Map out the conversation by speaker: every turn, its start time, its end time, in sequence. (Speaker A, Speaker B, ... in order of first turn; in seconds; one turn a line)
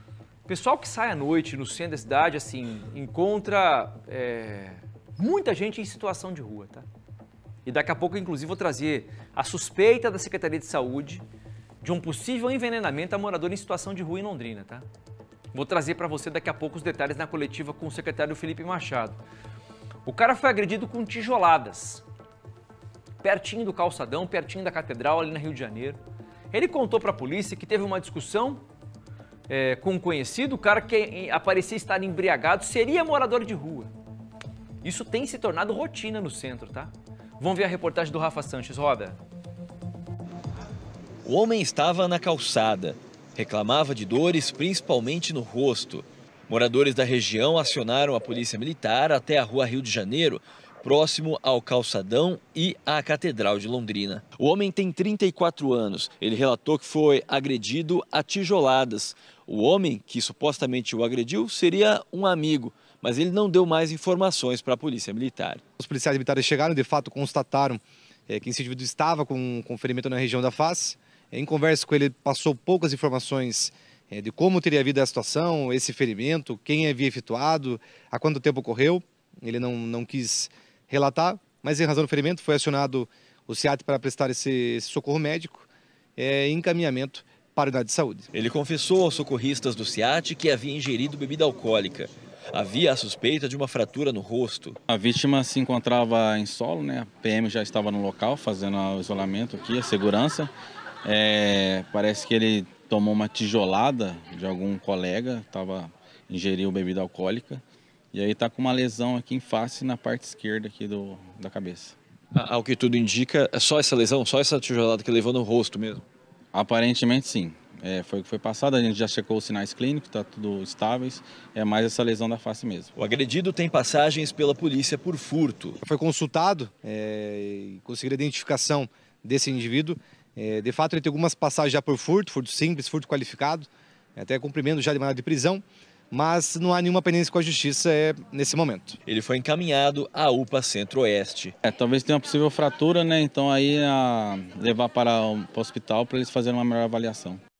Speaker A: 0.5-6.8
Speaker A: 7.7-11.2
Speaker A: 11.8-14.8
Speaker A: 15.5-19.2
Speaker A: 20.1-22.0
Speaker A: 23.2-26.0
Speaker A: 26.5-28.6
Speaker A: 29.5-33.9
Speaker A: 34.8-39.2
Speaker B: 41.2-65.6
Speaker C: 65.8-88.3
Speaker B: 88.3-94.8
Speaker D: 94.9-100.5
Speaker D: 101.0-112.0
Speaker B: 112.3-116.1
Speaker D: 116.5-122.9
Speaker B: 123.0-125.8
Speaker C: 125.8-139.0
Speaker B: 139.1-141.5
Speaker D: 141.6-147.4